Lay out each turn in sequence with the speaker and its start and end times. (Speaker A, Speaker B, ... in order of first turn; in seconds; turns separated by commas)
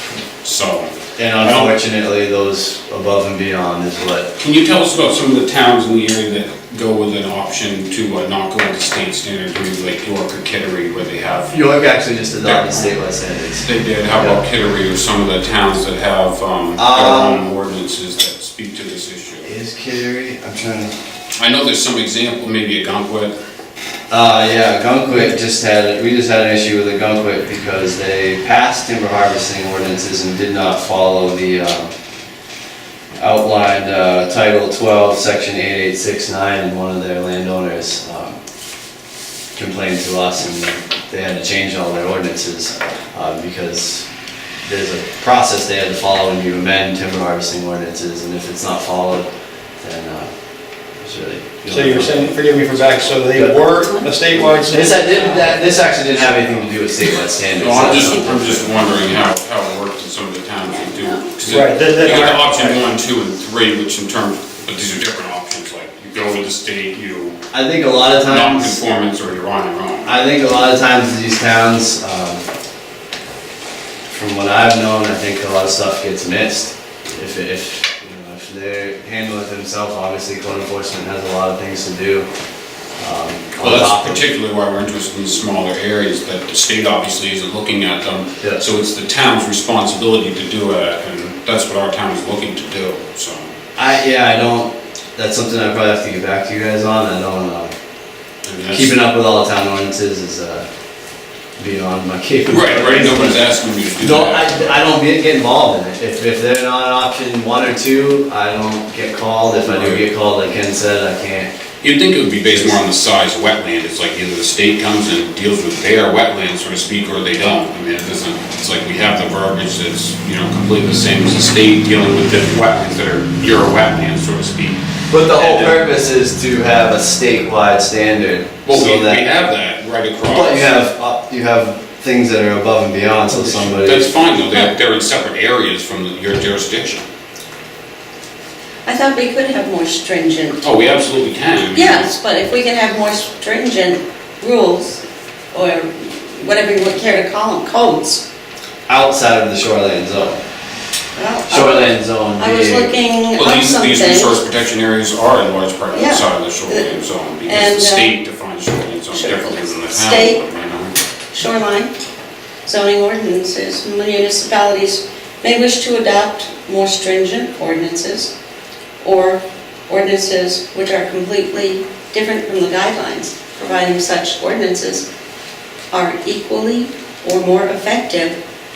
Speaker A: 0.4-1.7, Speaker B: 1.2-4.3, Speaker A: 4.4-11.5, Speaker B: 11.5-14.4, Speaker A: 12.4-12.9, Speaker A: 13.6-19.5, Speaker B: 16.8-17.4, Speaker B: 19.4-20.9, Speaker A: 21.4-23.3, Speaker B: 24.1-31.9, Speaker B: 33.2-38.4, Speaker B: 39.5-44.1, Speaker B: 44.6-49.3, Speaker B: 49.8-50.3, Speaker B: 51.0-52.3, Speaker C: 51.7-55.5, Speaker B: 53.3-53.6, Speaker B: 54.6-58.7, Speaker D: 55.1-55.5, Speaker A: 57.5-67.4, Speaker C: 61.4-62.8, Speaker B: 67.5-68.8, Speaker A: 68.2-70.2, Speaker B: 70.0-72.4, Speaker B: 74.1-82.3, Speaker B: 83.0-84.2, Speaker A: 83.6-93.5, Speaker B: 93.8-97.7, Speaker A: 98.4-98.9, Speaker B: 98.7-100.7, Speaker B: 101.6-111.5, Speaker A: 102.5-104.8, Speaker A: 109.6-110.0, Speaker A: 111.8-125.8, Speaker B: 112.5-112.8, Speaker B: 125.1-129.2, Speaker A: 128.7-130.8, Speaker B: 130.3-134.1, Speaker A: 133.3-137.0, Speaker D: 138.8-140.6, Speaker A: 140.6-142.1, Speaker D: 141.7-148.2, Speaker B: 148.9-150.4, Speaker D: 151.1-154.4, Speaker B: 151.5-152.9, Speaker A: 153.3-160.9, Speaker D: 155.9-156.9, Speaker D: 157.4-158.1, Speaker D: 159.1-160.4, Speaker D: 161.3-161.9, Speaker D: 162.6-168.3, Speaker D: 169.0-175.0, Speaker D: 175.9-178.4